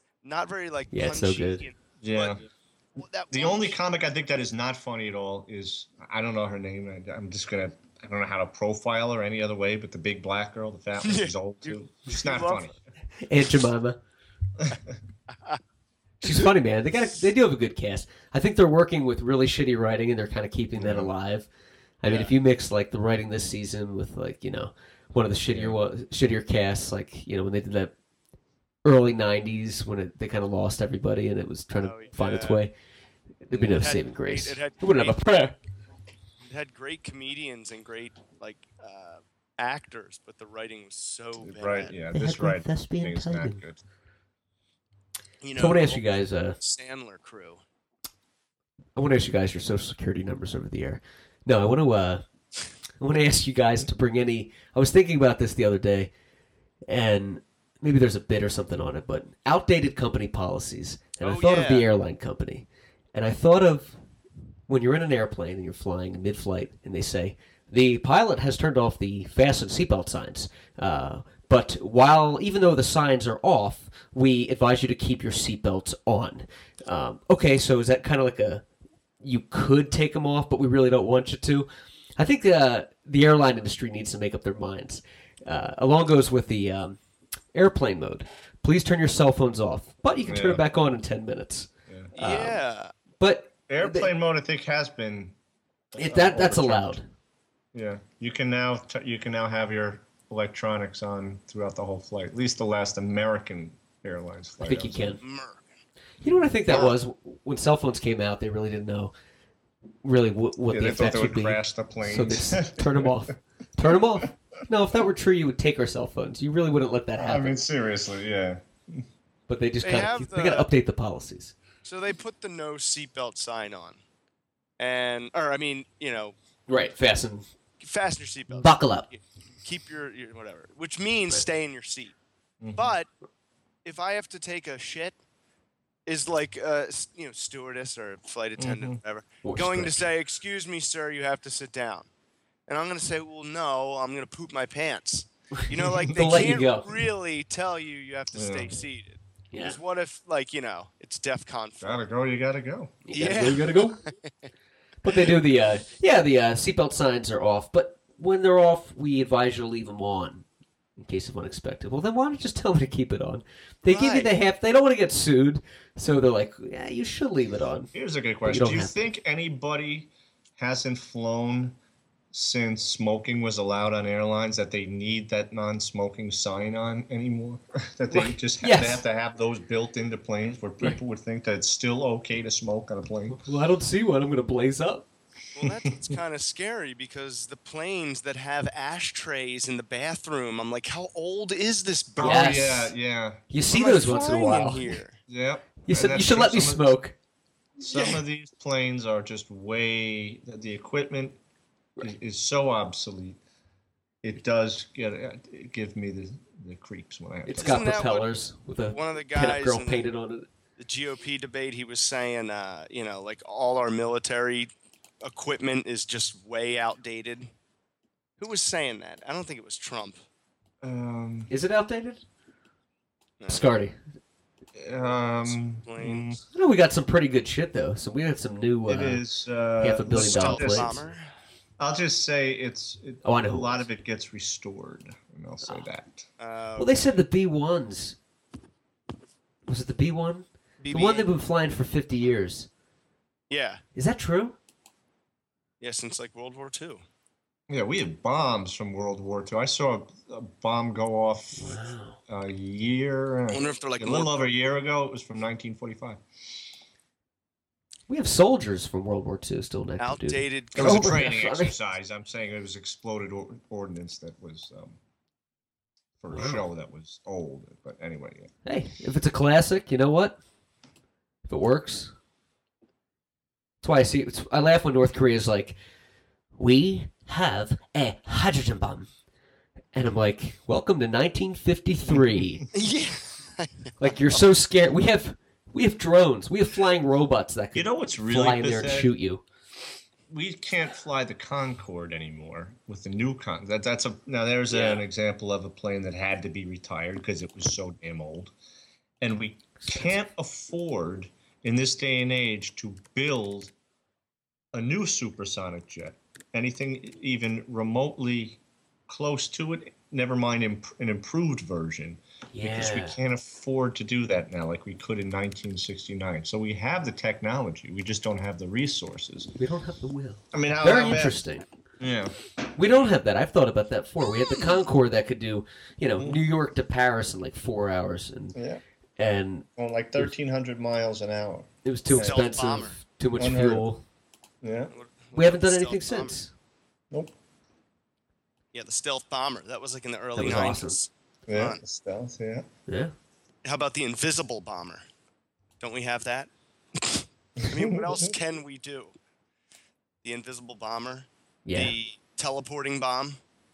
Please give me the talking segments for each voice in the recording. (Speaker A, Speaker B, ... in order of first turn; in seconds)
Speaker A: 0.2-3.7, 11.0-12.7, 22.1-22.3, 31.8-32.6, 33.5-35.2, 36.5-41.9, 45.4-46.0, 46.6-47.6, 61.2-61.9, 92.2-92.9, 105.2-105.7, 119.8-120.7, 121.8-124.0, 124.8-126.3, 127.8-132.2, 132.8-133.1, 133.8-135.2, 136.1-142.1, 142.7-152.0, 153.1-154.5, 163.9-164.3, 185.5-192.7, 193.7-195.2, 197.8-198.2, 207.6-208.3, 208.9-210.1, 210.8-214.7, 215.2-217.5, 218.4-220.2, 223.4-223.7, 225.4-226.3, 230.1-231.3, 236.4-237.2, 240.8-241.3, 243.5-243.8, 245.8-247.0, 253.5-254.5, 260.0-261.3, 282.7-284.4, 294.7-295.0, 332.1-333.0, 334.9-336.4, 338.7-341.8, 343.6-345.0, 345.8-349.1, 350.2-353.4
Speaker B: 0.9-1.7, 13.2-14.0, 16.2-21.5, 22.0-27.9, 28.8-32.7, 33.5-35.6, 42.1-43.6, 45.6-46.6, 49.0-52.2, 53.0-56.1, 56.9-64.0, 64.7-78.7, 79.2-87.0, 87.5-92.6, 93.2-94.1, 96.0-97.1, 104.6-105.2, 106.2-109.1, 110.0-117.6, 119.5-121.5, 126.7-127.5, 128.5-129.1, 139.4-140.1, 145.6-146.9, 149.5-149.8, 153.1-154.0, 155.0-160.4, 161.0-167.9, 168.4-169.0, 178.1-179.0, 183.3-185.1, 192.2-192.9, 193.5-195.0, 195.9-197.2, 207.5-210.5, 221.5-222.2, 223.5-223.9, 226.5-229.2, 229.8-230.9, 233.2-233.8, 236.8-238.2, 239.7-242.7, 243.9-244.6, 251.6-252.2, 258.1-261.7, 266.3-266.6, 268.6-270.4, 271.5-272.1, 273.8-275.8, 276.6-279.1, 279.9-282.6, 284.0-289.4, 312.5-313.2, 319.6-321.6, 322.8-328.6, 329.2-329.7, 331.9-334.0, 335.4-336.5, 340.4-341.0, 342.9-343.1, 351.7-351.9
Speaker C: 2.0-2.4, 3.3-12.8, 20.8-21.1, 25.5-25.8, 41.4-43.8, 90.3-90.6, 93.7-95.3, 95.9-97.0, 97.7-105.2, 106.2-106.9, 110.7-113.3, 117.2-119.1, 132.6-132.9, 138.6-139.0, 145.7-146.1, 148.3-148.8, 151.8-153.1, 167.9-171.8, 172.3-183.4, 192.2-193.4, 195.3-196.9, 197.8-201.4, 202.0-203.4, 204.2-208.0, 220.8-221.5, 224.8-226.4, 228.9-231.0, 231.8-236.3, 247.7-256.2, 260.8-265.0, 266.2-268.5, 282.1-282.7, 287.8-289.1, 290.3-298.5, 299.2-303.7, 304.7-319.5, 320.5-321.4, 322.0-322.3, 326.2-326.4, 328.6-328.8, 329.8-332.5, 333.4-333.9, 334.6-334.9, 341.5-342.7, 347.6-348.3